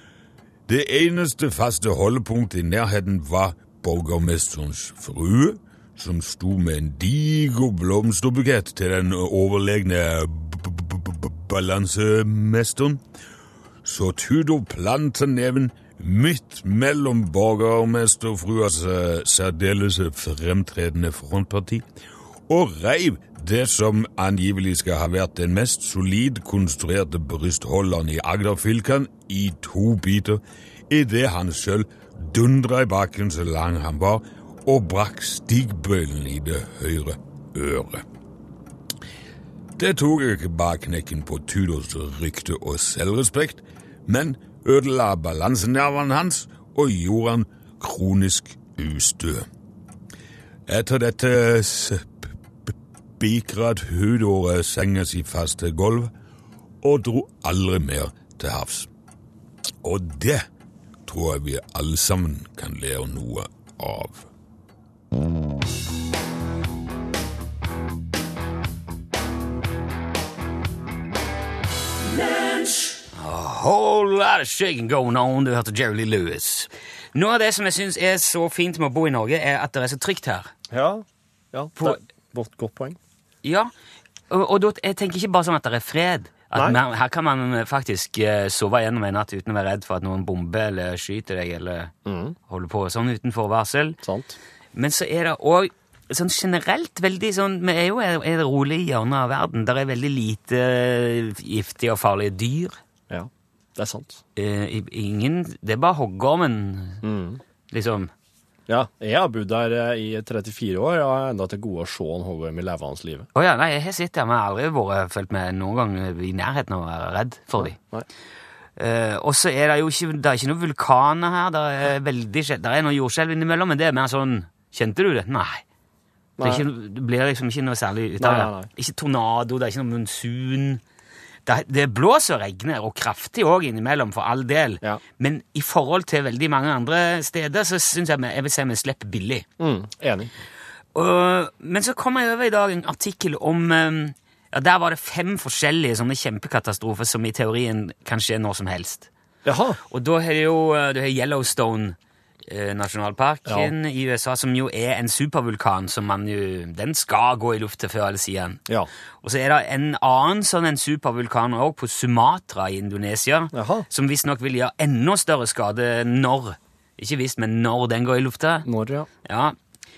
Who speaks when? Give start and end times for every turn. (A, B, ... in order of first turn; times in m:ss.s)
0:00.7-0:13.0 A
0:13.8-0:21.8 A
0:22.5-0:38.0 A
0:39.8-0:49.5 A
0:50.7-0:52.1 A
0:53.2-0:56.1 A
0:56.8-0:58.9 A
0:59.8-1:00.5 A
1:01.1-1:04.3 A
1:13.1-1:20.5 B
1:20.7-1:23.0 C
1:23.4-1:23.7 B
1:24.3-1:31.9 B
1:32.1-1:32.4 C
1:32.5-1:34.0 B
1:34.0-1:34.4 C
1:34.8-1:42.8 B
1:43.1-1:44.2 C
1:44.4-1:47.0 B
1:47.0-1:47.4 C
1:47.7-1:48.1 B
1:48.7-1:53.3 C
1:53.4-1:57.8 B
1:57.6-1:58.1 C
1:58.8-2:05.6 B
2:06.4-2:06.6 C
2:06.4-2:10.8 B
2:08.2-2:08.7 C
2:11.5-2:19.5 B
2:19.6-2:20.3 C
2:21.0-2:29.1 B
2:29.4-2:29.8 C
2:29.9-2:38.6 B
2:33.5-2:33.7 C
2:39.2-2:48.7 B
2:43.5-2:43.9 C
2:48.6-2:49.1 C
2:49.2-2:49.6 B